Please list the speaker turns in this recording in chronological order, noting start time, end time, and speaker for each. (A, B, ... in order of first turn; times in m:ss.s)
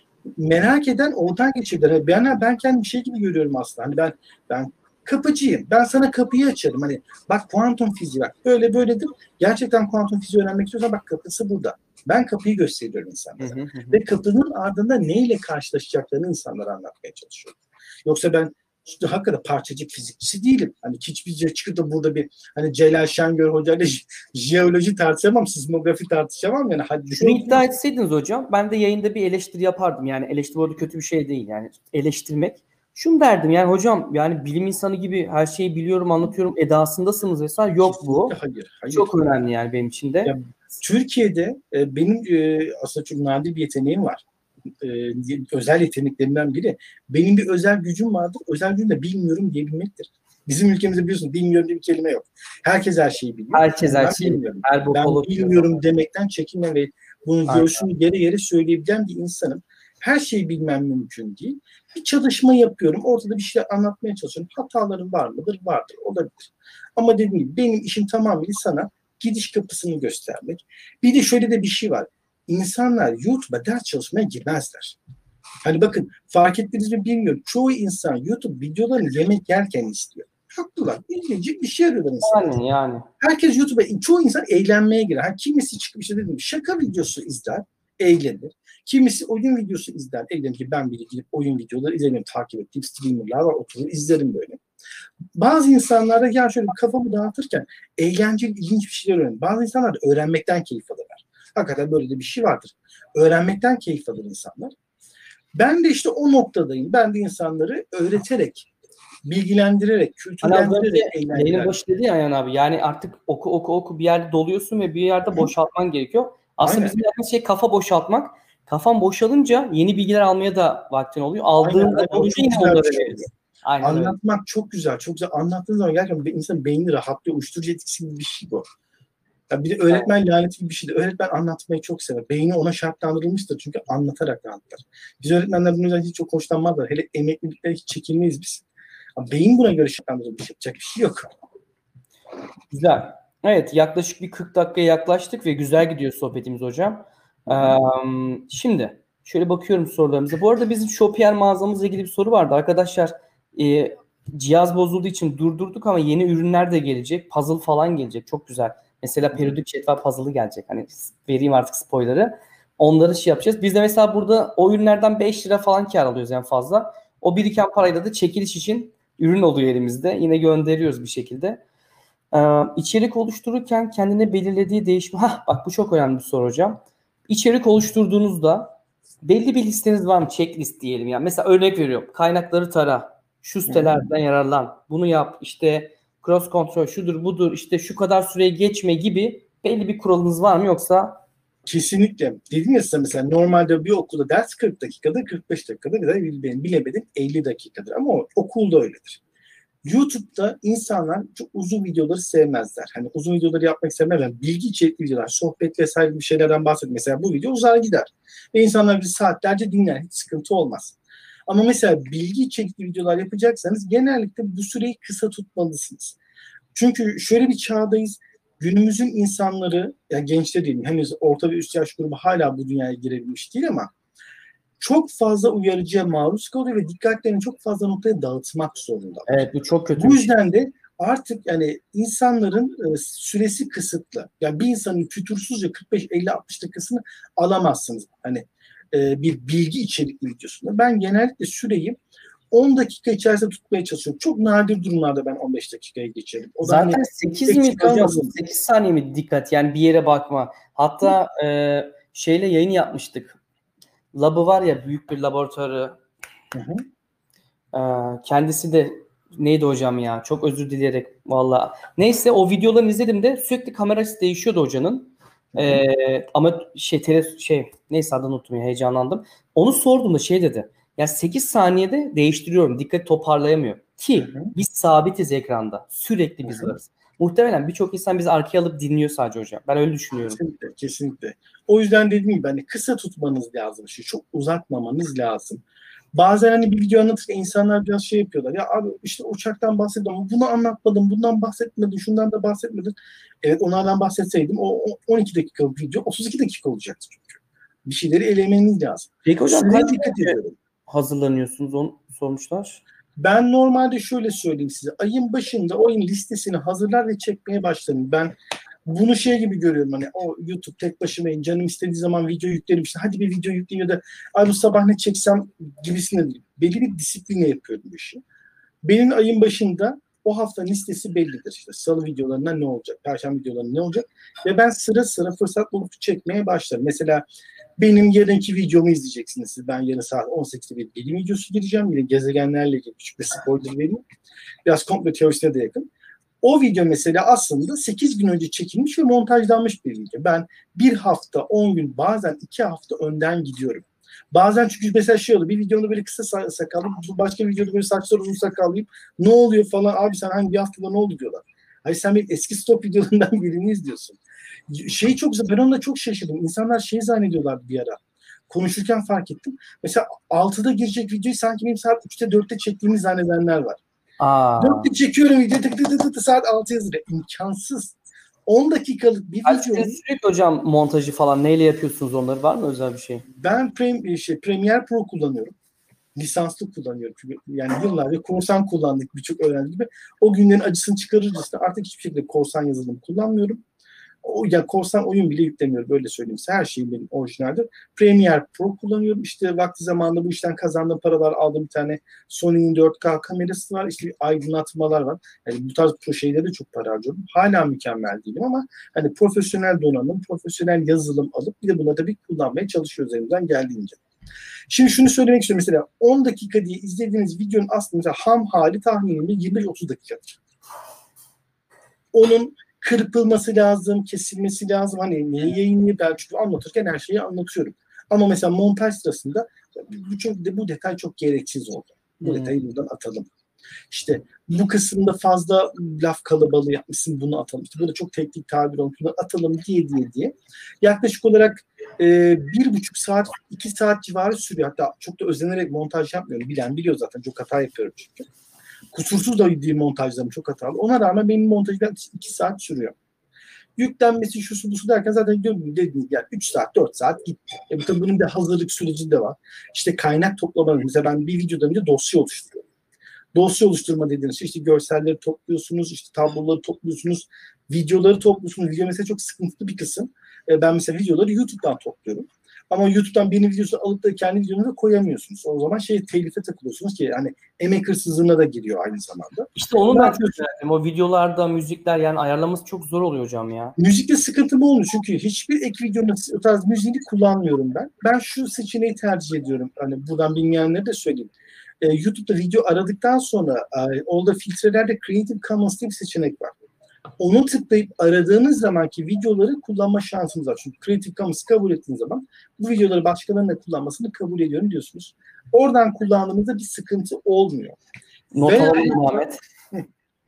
0:00.4-0:27.7 A
0:13.4-0:14.0 B
0:27.1-0:38.4 B
0:37.9-0:39.1 A
0:38.9-0:40.3 B
0:40.3-0:44.2 A
0:44.8-1:15.0 A
0:53.5-0:55.8 B
0:57.5-0:57.9 B
1:15.6-1:22.6 A
1:22.2-1:23.1 B
1:23.2-1:34.6 A
1:35.4-1:44.7 A
1:45.6-1:48.7 A
1:49.2-1:51.8 A
1:50.4-2:04.2 B
1:56.6-1:57.0 A
2:01.6-2:03.3 A
2:03.8-2:08.7 A
2:09.5-2:18.6 A
2:19.2-2:21.3 A
2:22.7-2:51.6 B
2:52.3-2:58.7 B
2:59.2-3:11.2 B
3:03.7-3:04.1 A
3:11.7-3:19.2 A
3:19.8-3:36.2 A
3:36.7-3:43.9 A
3:44.8-3:49.4 A
3:49.3-3:50.3 B
3:50.0-4:02.0 A
4:02.5-4:08.4 A
4:06.6-4:13.4 B
4:14.1-4:16.0 B
4:16.5-4:16.8 A
4:17.7-4:40.4 B
4:25.6-4:25.8 A
4:34.2-4:34.5 A
4:36.4-4:36.7 A
4:40.3-4:45.6 A
4:46.1-5:00.6 A
4:59.2-5:02.8 B
5:03.2-5:08.4 A
5:08.9-5:18.2 A
5:18.8-5:27.2 A
5:27.8-5:34.0 A
5:34.6-5:35.9 A
5:36.4-6:03.8 A
6:04.2-6:04.9 B
6:04.6-6:10.0 A
6:09.4-6:13.2 B
6:13.3-6:15.5 A
6:16.2-6:23.6 A
6:24.2-6:44.0 A
6:44.7-6:50.4 A
6:52.1-7:03.3 A
7:02.2-7:02.6 B
7:03.9-7:18.3 A
7:18.9-7:23.0 A
7:23.8-7:32.6 A
7:33.3-7:50.3 A
7:49.6-7:53.8 B
7:53.8-8:06.6 A
8:07.2-8:17.8 A
8:18.3-8:19.4 B
8:18.4-8:19.9 A